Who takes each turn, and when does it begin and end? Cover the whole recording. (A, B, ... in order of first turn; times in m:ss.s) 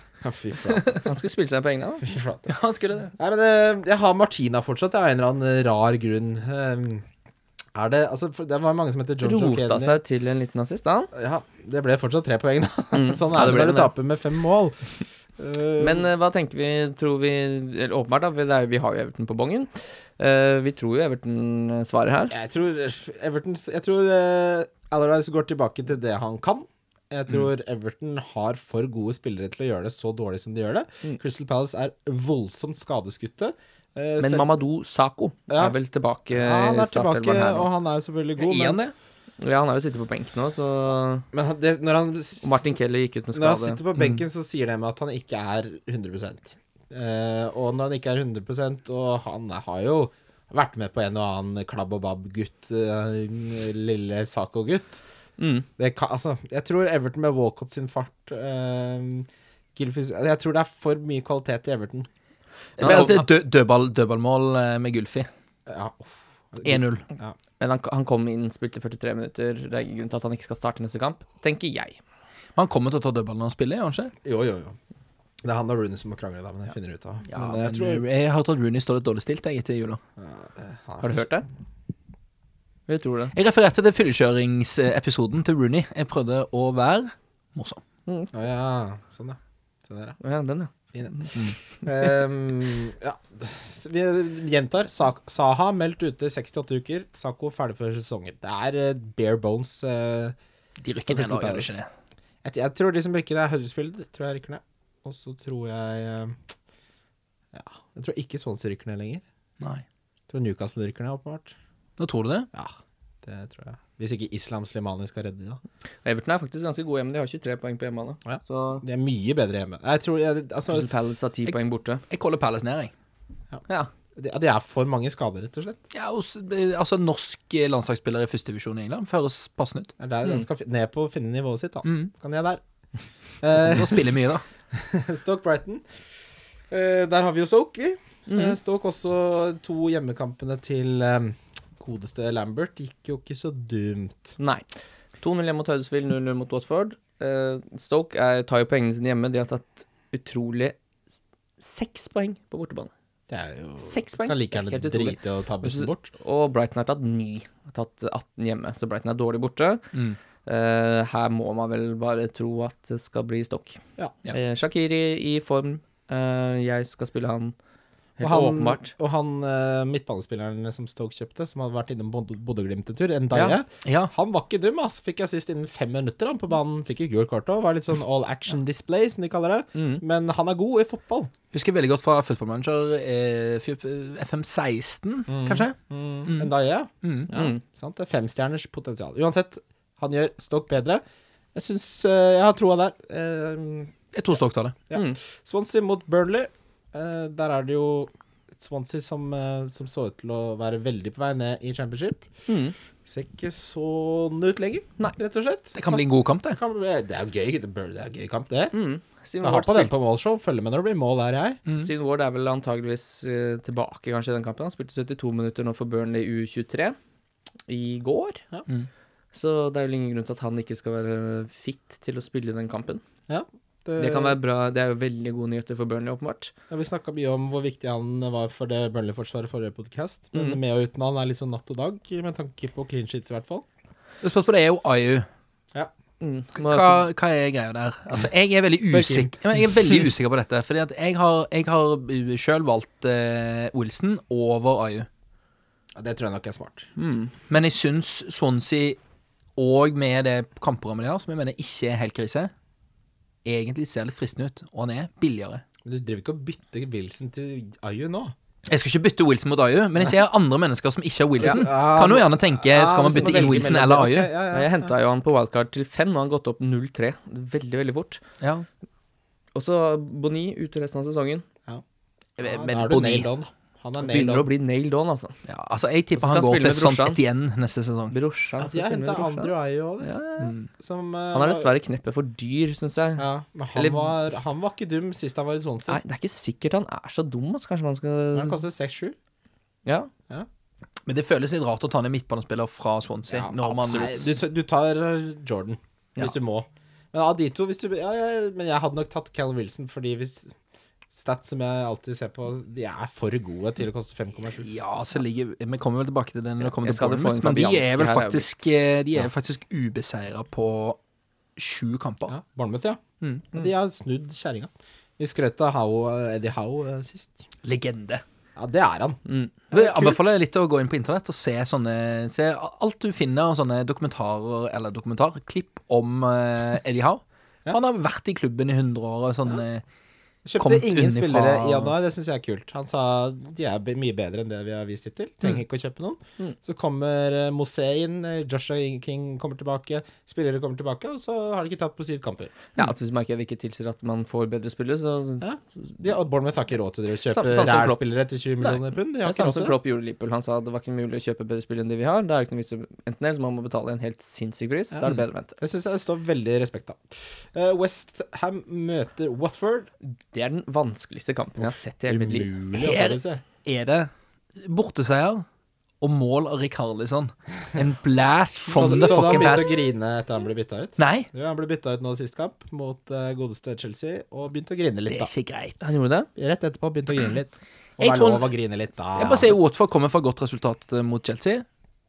0:00.2-0:01.0 A
0:01.0-0:02.1 B
0:02.0-0:02.5 A
0:02.5-0:03.1 C
0:03.2-0:07.1 A
0:07.8-0:10.0 A
0:09.2-0:11.1 B
0:11.1-0:14.8 A
0:12.9-0:13.9 B
0:15.4-0:16.1 A
0:15.8-0:22.4 B
0:22.3-0:34.5 A
0:34.2-0:37.7 B
0:35.5-0:35.8 A
0:36.3-0:38.8 A
0:38.4-0:38.9 C
0:39.4-0:41.3 B
0:41.3-0:42.6 A
0:42.4-0:43.8 B
0:43.3-0:55.0 A
0:44.0-0:44.2 C
0:55.4-0:55.7 B
0:55.8-1:02.1 A
1:02.8-1:03.2 B
1:02.8-1:05.3 C
1:05.7-1:07.4 A
1:06.6-1:07.0 C
1:07.6-1:12.0 B
1:12.6-1:14.1 C
1:14.2-1:14.8 A
1:15.4-1:18.0 A
1:17.3-1:20.0 C
1:20.2-1:21.3 A
1:21.0-1:21.5 B
1:22.9-1:23.3 B
1:23.4-1:27.8 C
1:28.3-1:30.2 A
1:30.2-1:31.3 B
1:31.8-1:40.4 A
1:40.8-1:41.9 C
1:41.1-1:41.8 A
1:42.4-1:46.4 A
1:47.5-1:49.2 A
1:50.3-1:51.5 A
1:52.0-1:52.5 C
1:52.5-1:55.6 A
1:56.0-1:58.8 B
1:58.2-2:00.9 A
2:00.7-2:02.0 B
2:02.1-2:02.9 C
2:04.2-2:05.8 A
2:05.9-2:09.9 C
2:10.0-2:12.6 A
2:13.4-2:14.1 A
2:13.6-2:14.4 C
2:14.7-2:15.8 A
2:16.7-2:24.4 A
2:18.3-2:18.6 B
2:24.4-2:24.6 B
2:25.2-2:30.8 B
2:31.6-2:32.9 B
2:33.3-2:36.1 A
2:33.8-2:39.8 B
2:39.9-2:40.2 C
2:40.4-2:47.6 B
2:48.2-2:48.9 B
2:48.2-3:01.3 A
2:53.3-2:53.6 B
2:53.8-2:54.1 C
2:59.8-3:00.0 B
3:01.5-3:06.5 C
3:05.3-3:11.0 A
3:07.0-3:07.3 C
3:07.3-3:07.6 B
3:11.6-3:13.9 A
3:14.1-3:14.8 C
3:14.9-3:22.3 A
3:14.9-3:15.2 B
3:22.5-3:22.8 B
3:23.1-3:28.8 A
3:25.8-3:26.6 C
3:28.7-3:29.9 B
3:29.4-3:31.6 A
3:31.8-3:37.0 B
3:37.7-3:38.4 B
3:39.3-3:43.0 B
3:43.3-3:44.4 A
3:44.0-3:46.5 B
3:46.7-3:53.6 A
3:54.2-3:55.3 C
3:56.2-3:57.0 B
3:56.6-4:05.1 C
3:58.9-3:59.3 A
4:06.0-4:06.9 A
4:07.0-4:07.3 B
4:07.5-4:09.0 C
4:09.6-4:12.5 C
4:13.4-4:15.6 C
4:15.8-4:18.4 A
4:18.7-4:24.3 C
4:21.4-4:24.9 A
4:23.2-4:23.4 B
4:24.5-4:28.2 B
4:28.4-4:28.7 C
4:29.6-4:31.5 B
4:32.4-4:33.3 C
4:32.4-4:34.5 A
4:34.0-4:35.4 B
4:35.5-4:38.2 C
4:36.2-4:37.2 B
4:38.1-4:40.5 B
4:38.6-4:40.1 A
4:40.4-4:40.7 C
4:40.8-4:41.7 A
4:41.3-4:44.1 B
4:43.2-4:46.0 A
4:45.9-4:48.6 B
4:48.3-4:49.2 A
4:49.9-4:50.1 B
4:51.1-4:54.4 C
4:53.3-5:00.6 A
5:01.1-5:04.7 A
5:04.6-5:11.0 C
5:06.7-5:08.7 B
5:11.6-5:12.3 C
5:12.3-5:17.4 A
5:13.2-5:13.5 C
5:17.6-5:18.2 C
5:18.6-5:19.2 A
5:19.3-5:19.5 B
5:19.7-5:20.3 A
5:19.7-5:29.8 C
5:30.4-5:42.5 A
5:30.6-5:31.9 C
5:42.8-5:46.0 B
5:45.4-5:49.8 A
5:47.3-5:48.0 B
5:49.2-5:55.6 B
5:55.6-5:59.9 A
6:00.0-6:02.5 B
6:01.6-6:03.4 A
6:02.8-6:04.1 C
6:04.6-6:05.5 C
6:06.0-6:09.7 C
6:08.7-6:15.3 A
6:11.0-6:11.3 C
6:15.1-6:15.9 C
6:15.8-6:16.3 B
6:16.4-6:19.5 A
6:18.0-6:18.5 C
6:19.2-6:21.6 C